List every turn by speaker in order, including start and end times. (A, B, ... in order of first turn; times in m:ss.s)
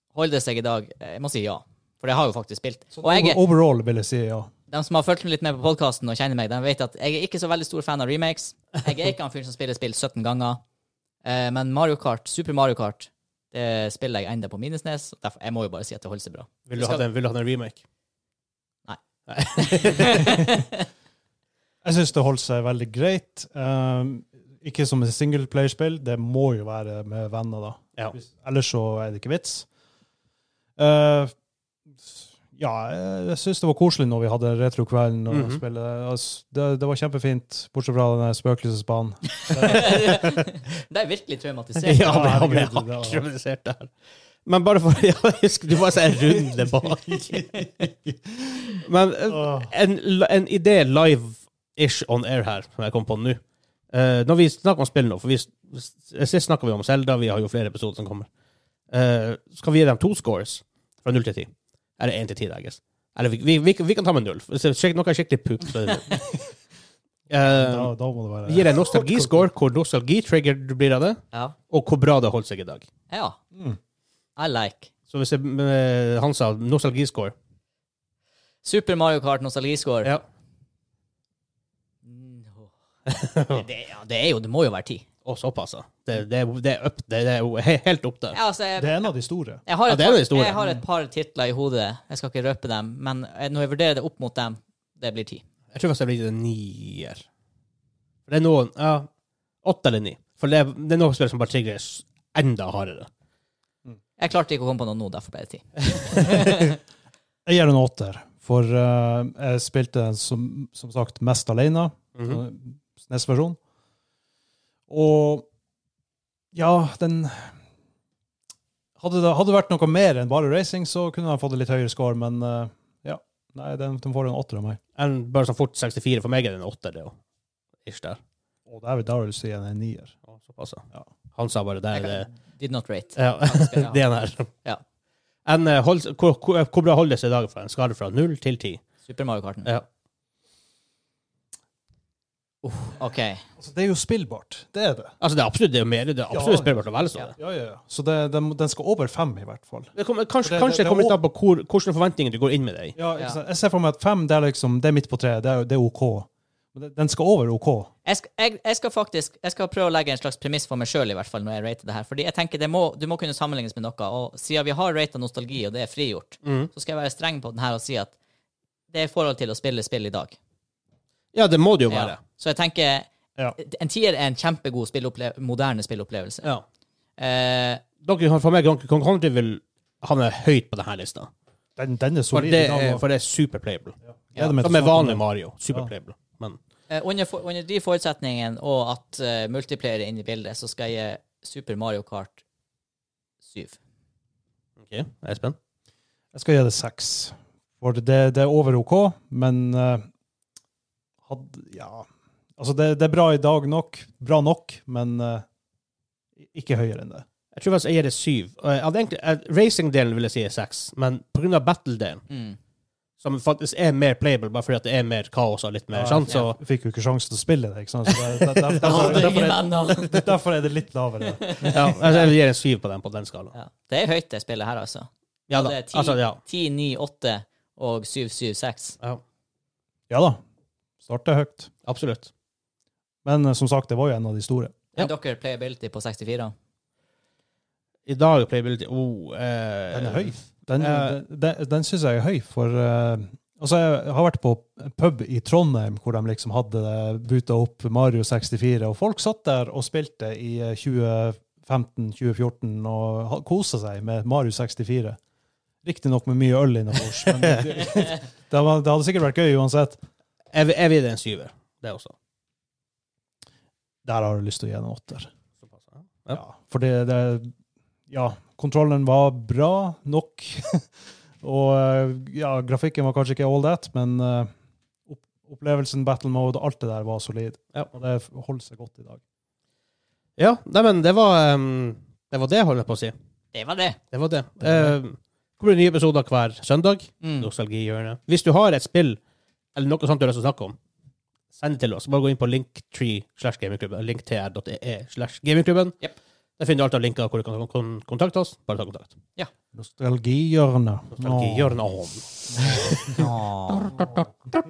0:00.1-0:03.4 A
0:03.0-0:04.5 B
0:04.7-0:10.6 A
0:11.2-0:17.0 A
0:16.7-0:17.8 C
0:19.3-0:20.4 C
0:19.6-0:20.8 A
0:21.8-0:29.7 B
0:30.8-0:31.3 B
0:32.0-0:40.0 B
0:35.3-0:35.6 C
0:39.4-0:42.4 A
0:39.7-0:40.2 C
0:41.8-0:43.9 C
0:42.0-0:43.2 B
0:44.5-0:47.3 C
0:46.4-0:48.6 B
0:47.4-0:47.7 A
0:48.8-0:53.4 C
0:49.3-0:49.7 B
0:53.9-0:58.3 C
0:58.9-1:06.1 C
1:07.3-1:07.9 C
1:07.4-1:09.5 B
1:08.5-1:12.9 C
1:13.1-1:13.4 A
1:14.4-1:14.9 A
1:15.1-1:17.3 C
1:18.6-1:20.1 A
1:22.0-1:22.7 A
1:23.1-1:23.6 C
1:23.4-1:25.0 A
1:25.2-1:28.4 C
1:28.3-1:29.0 A
1:28.8-1:29.6 B
1:29.6-1:35.4 A
1:29.9-1:30.7 C
1:35.7-1:37.2 C
1:38.3-1:39.1 C
1:39.6-1:43.1 C
1:44.2-1:46.8 A
1:47.5-1:53.6 B
1:52.2-1:52.4 C
1:54.9-1:55.5 B
1:56.5-1:57.5 B
1:59.0-2:04.8 B
2:05.0-2:07.1 C
2:07.8-2:08.2 C
2:08.7-2:10.2 B
2:10.3-2:10.8 C
2:11.4-2:12.3 C
2:12.0-2:14.0 A
2:13.2-2:14.5 C
2:15.5-2:18.8 C
2:19.1-2:19.7 A
2:22.6-2:23.4 A
2:23.6-2:25.1 B
2:25.2-2:27.3 C
2:26.3-2:26.8 B
2:27.4-2:31.2 B
2:30.0-2:33.0 C
2:33.0-2:37.9 B
2:38.0-2:48.1 A
2:46.4-2:46.7 C
2:48.9-2:50.4 A
2:51.3-2:52.2 C
2:51.9-2:56.5 A
2:57.2-2:57.8 A
2:58.0-3:01.3 C
3:01.8-3:03.0 B
3:02.3-3:04.0 C
3:04.3-3:05.9 B
3:04.6-3:06.6 C
3:06.9-3:12.4 A
3:13.4-3:13.8 A
3:14.8-3:15.6 C
3:16.3-3:20.0 B
3:21.3-3:22.1 B
3:22.6-3:25.4 B
3:26.4-3:27.2 B
3:27.5-3:32.2 C
3:32.3-3:32.6 A
3:33.2-3:36.6 C
3:35.9-3:41.8 B
3:38.6-3:39.5 C
3:38.8-3:40.3 A
3:41.3-3:42.3 A
3:41.7-3:43.5 C
3:43.5-3:49.0 A
3:45.5-3:46.4 C
3:50.1-3:50.4 B
3:51.0-3:51.7 B
3:51.9-3:52.3 C
3:53.2-3:54.8 B
3:55.0-3:56.5 A
3:58.1-4:01.2 C
3:59.9-4:15.2 B
4:15.8-4:20.0 B
4:20.5-4:22.1 C
4:24.0-4:25.3 B
4:25.7-4:26.4 C
4:26.3-4:27.5 B
4:28.1-4:30.9 B
4:31.4-4:34.5 B
4:35.1-4:39.2 B
4:40.4-4:43.1 C
4:43.5-4:44.0 A
4:44.1-4:49.2 C
4:44.6-4:45.0 B
4:47.2-4:47.5 A
4:49.8-4:50.8 C
4:51.6-4:56.0 C
4:56.6-4:59.1 C
4:59.8-5:01.8 B
5:01.2-5:04.3 C
5:02.5-5:03.2 B
5:03.2-5:03.9 A